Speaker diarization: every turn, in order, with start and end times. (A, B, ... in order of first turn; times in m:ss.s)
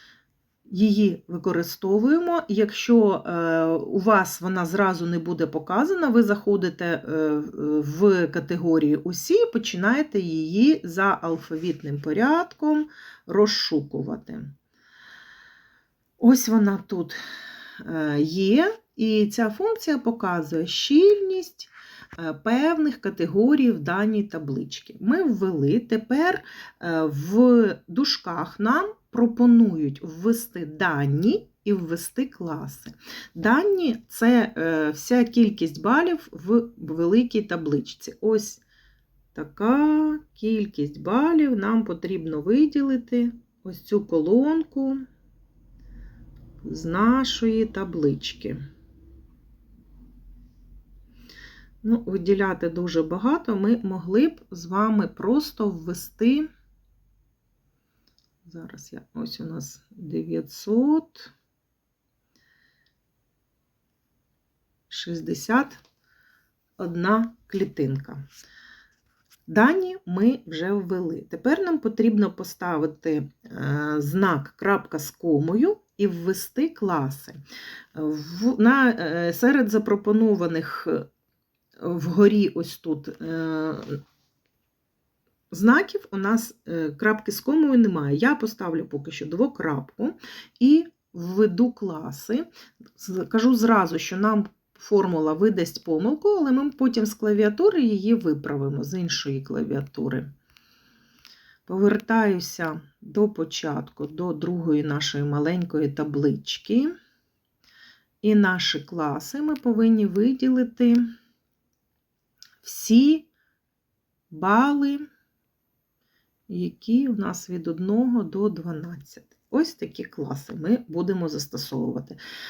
0:00.7-0:14.5 A
0:16.2-0:17.2 A
0:17.8-0:38.6 A
0:39.3-0:45.0 A
0:46.6-0:48.6 A
0:51.8-0:56.5 A
0:58.4-1:01.3 A
1:04.9-1:05.8 A
1:06.8-1:08.2 A
1:09.5-1:17.4 A
1:18.0-1:21.0 A
1:21.8-1:24.0 A
1:25.5-1:40.3 A
1:41.7-1:46.9 A
1:48.2-1:51.0 A
1:52.6-1:53.3 A
1:54.3-1:55.1 A
1:56.5-2:02.2 A